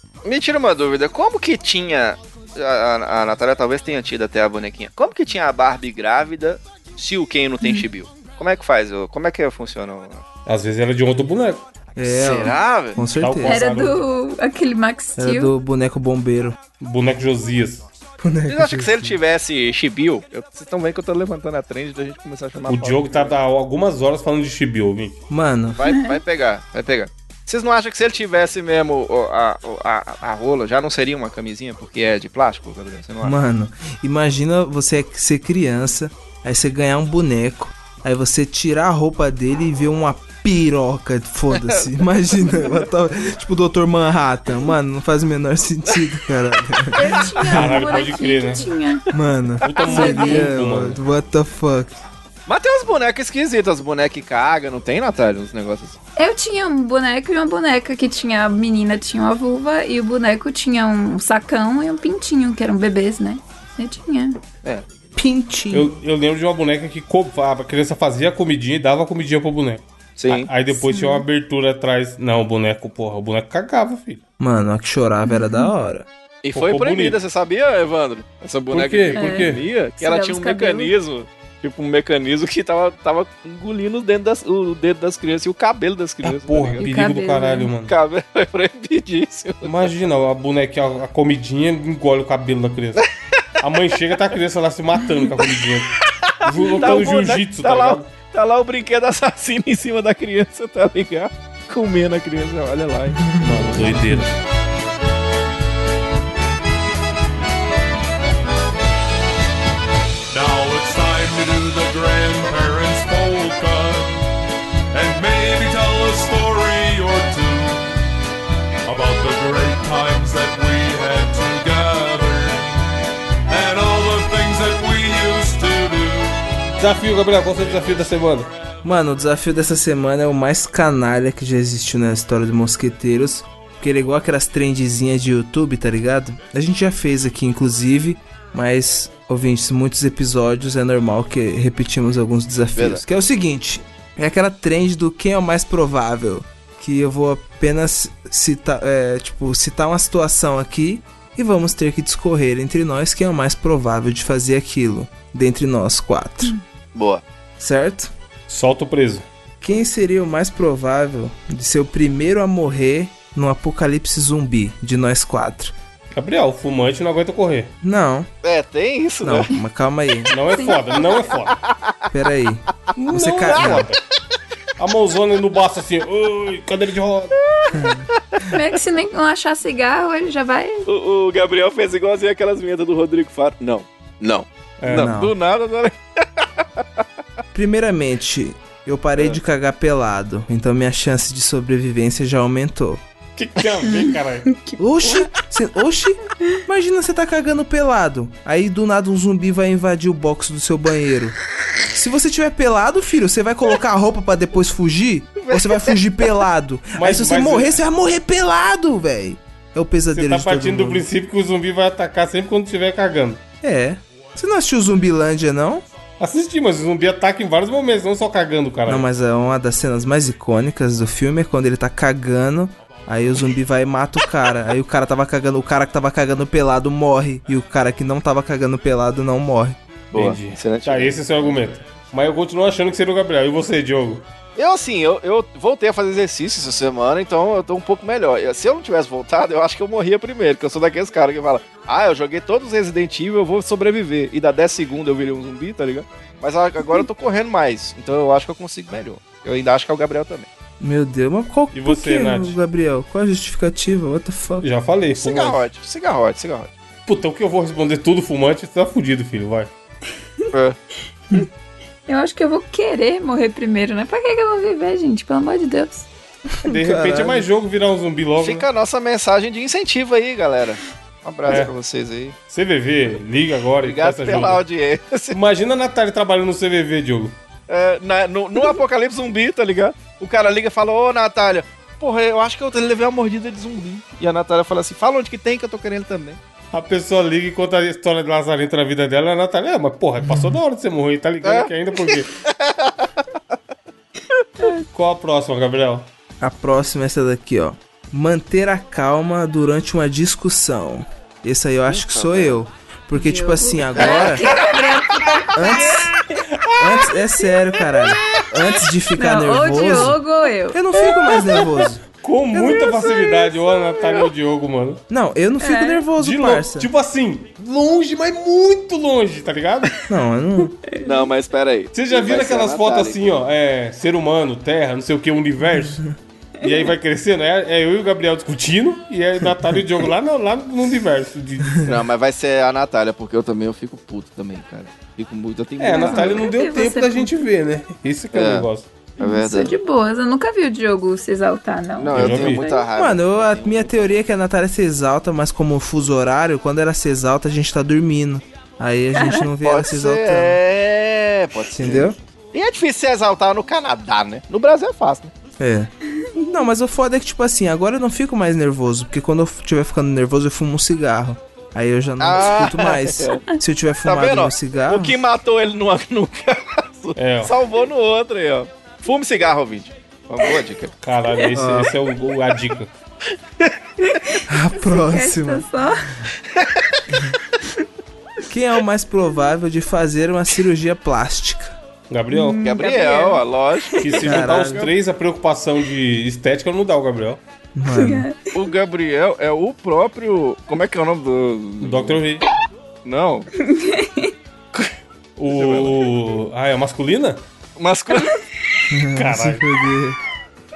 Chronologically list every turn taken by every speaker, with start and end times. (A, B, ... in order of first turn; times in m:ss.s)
0:00.2-0:10.2 A
0:10.5-0:11.6 B
0:12.0-0:13.6 C
0:12.0-0:13.0 A
0:13.1-0:14.0 B
0:13.4-0:15.5 D
0:15.2-0:16.6 C
0:16.8-0:17.9 B
0:18.2-0:19.2 C
0:18.5-0:23.4 A
0:22.7-0:25.2 B
0:25.3-0:25.8 C
0:25.8-0:33.4 A
0:25.9-0:26.2 D
0:33.2-0:47.9 C
0:41.5-0:41.9 A
0:46.9-0:49.0 D
0:47.4-0:48.7 B
0:49.1-0:52.0 C
0:49.6-0:51.0 B
0:49.8-0:50.5 D
0:52.5-0:56.0 A
0:56.2-1:04.4 D
1:05.2-1:06.0 C
1:05.7-1:14.2 B
1:10.2-1:10.5 A
1:10.8-1:11.2 D
1:14.4-1:16.1 C
1:15.3-1:15.7 D
1:16.4-1:26.8 A
1:16.5-1:17.2 B
1:18.7-1:19.6 B
1:19.2-1:20.9 D
1:26.2-1:27.9 B
1:26.8-1:27.7 D
1:27.9-1:29.8 A
1:29.6-1:33.1 B
1:33.6-1:38.1 B
1:36.2-1:44.0 A
1:43.1-1:44.3 C
1:43.4-1:44.3 B
1:50.3-1:54.2 E
1:54.9-1:58.0 E
1:58.9-2:02.7 E
2:03.5-2:06.6 E
2:06.8-2:08.5 B
2:08.8-2:36.5 C
2:22.8-2:23.0 A
2:36.9-2:37.2 A
2:37.6-2:38.1 C
2:38.5-2:39.2 B
2:39.6-2:45.7 C
2:46.1-2:47.7 B
2:47.8-2:48.3 C
2:48.4-2:49.5 A
2:49.2-2:50.4 C
2:50.3-2:51.6 B
2:50.5-2:51.0 D
2:51.5-2:51.9 A
2:52.1-2:53.9 C
2:53.0-2:54.0 B
2:53.5-2:53.8 A
2:54.8-2:57.4 B
2:57.7-2:58.1 C
2:58.5-3:00.9 D
3:00.9-3:07.0 A
3:04.8-3:05.2 B
3:04.9-3:05.3 C
3:07.5-3:13.0 C
3:13.4-3:14.5 B
3:13.8-3:15.2 D
3:14.8-3:21.4 C
3:21.9-3:31.1 C
3:25.4-3:26.0 A
3:27.0-3:27.8 B
3:30.1-3:33.4 B
3:33.6-3:35.8 C
3:36.2-3:39.1 B
3:38.9-3:49.8 C
3:50.1-3:51.6 A
3:50.1-3:54.2 B
3:54.6-4:10.5 A
4:10.8-4:14.7 C
4:11.7-4:12.6 B
4:14.6-4:15.7 B
4:15.2-4:16.7 A
4:17.1-4:19.7 B
4:22.1-4:26.1 D
4:26.5-4:27.5 C
4:26.6-4:28.7 B
4:28.4-4:32.4 A
4:31.5-4:31.7 B
4:32.5-4:34.6 B
4:33.8-4:35.4 A
4:35.3-4:37.4 B
4:37.7-4:46.4 A
4:46.7-4:52.3 B
4:50.2-4:50.6 C
4:51.4-4:53.1 A
4:54.9-4:56.1 B
4:56.4-5:04.5 C
5:01.9-5:02.6 A
5:03.2-5:06.1 D
5:04.0-5:04.8 A
5:05.5-5:06.1 C
5:05.9-5:07.2 B
5:06.8-5:10.2 C
5:08.0-5:08.5 B
5:09.2-5:11.4 D
5:10.7-5:12.0 C
5:11.4-5:15.0 B
5:12.5-5:14.3 D
5:15.1-5:16.9 C
5:15.6-5:16.1 D
5:16.2-5:20.0 B
5:20.1-5:20.8 C
5:20.9-5:21.2 D
5:21.0-5:23.2 A
5:21.9-5:26.0 B
5:25.8-5:26.1 C
5:26.6-5:31.9 B
5:26.6-5:26.9 D
5:31.8-5:36.5 A
5:35.8-5:38.9 B
5:35.9-5:37.4 D
5:38.3-5:38.7 A
5:39.2-5:39.8 A
5:39.2-5:42.9 D
5:42.0-5:44.2 A
5:42.1-5:42.6 B
5:43.0-5:50.6 C
5:49.2-5:49.5 D
5:49.6-5:55.3 A
5:51.7-5:52.2 C
5:55.6-5:55.9 C
5:56.2-5:56.6 D
5:56.4-6:05.2 C
6:02.2-6:03.4 A
6:04.0-6:10.9 A
6:07.2-6:07.6 B
6:11.0-6:12.9 B
6:11.5-6:11.9 C
6:14.0-6:16.2 D
6:14.5-6:15.7 C
6:16.5-6:17.0 A
6:18.5-6:21.8 C
6:22.1-6:22.6 B
6:22.3-6:24.0 D
6:22.6-6:24.9 A
6:24.0-6:27.4 B
6:24.2-6:24.9 C
6:27.8-6:28.3 C
6:27.9-6:28.5 D
6:28.5-6:32.2 A
6:31.8-6:32.5 B
6:33.0-6:33.5 A
6:33.6-6:34.3 D
6:35.4-6:37.4 B
6:35.5-6:36.0 A
6:37.8-6:38.4 A
6:38.9-6:40.2 C
6:39.1-6:39.7 B